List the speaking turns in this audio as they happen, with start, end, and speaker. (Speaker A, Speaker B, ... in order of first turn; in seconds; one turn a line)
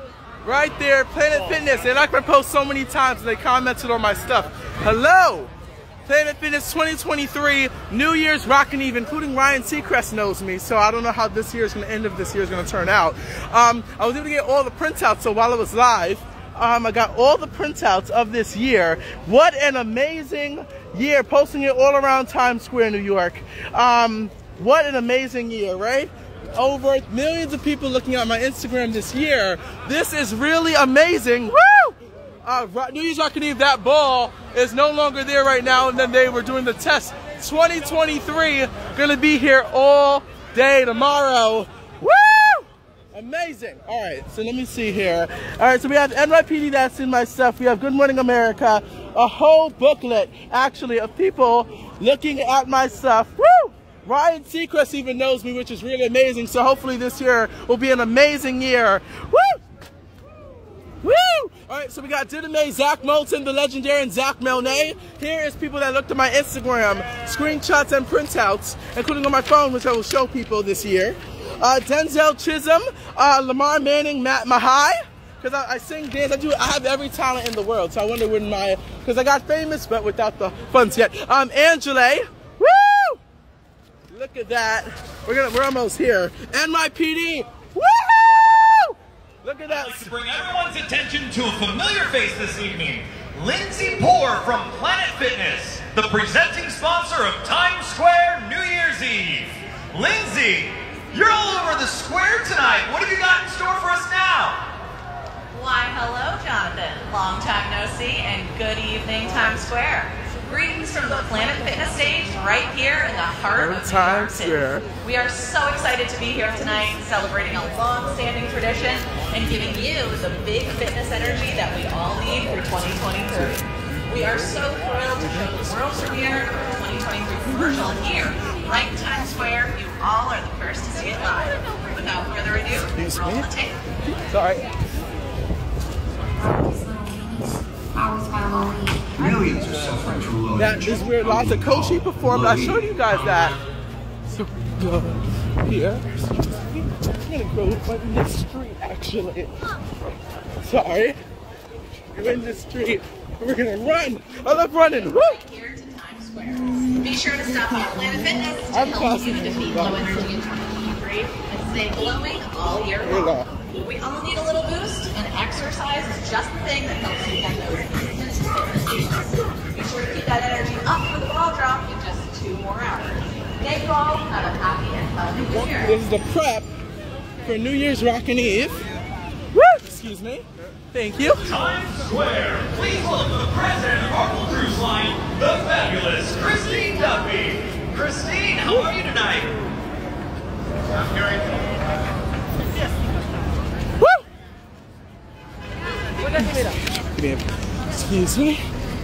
Speaker A: 0.4-5.5
Speaker A: 6.1-59.6
Speaker A: 61.0-83.2
Speaker A: 84.1-90.1
Speaker B: 89.7-104.7
Speaker C: 105.5-133.8
Speaker A: 113.5-114.8
Speaker A: 133.0-133.5
Speaker A: 134.1-134.7
Speaker D: 136.4-143.4
Speaker A: 140.6-143.6
Speaker A: 144.3-149.5
Speaker A: 150.6-151.2
Speaker A: 152.1-155.4
Speaker C: 154.9-175.9
Speaker A: 158.7-160.3
Speaker A: 163.0-163.5
Speaker A: 175.8-176.7
Speaker A: 177.4-178.8
Speaker A: 179.5-181.5
Speaker B: 181.5-189.5
Speaker A: 197.0-198.6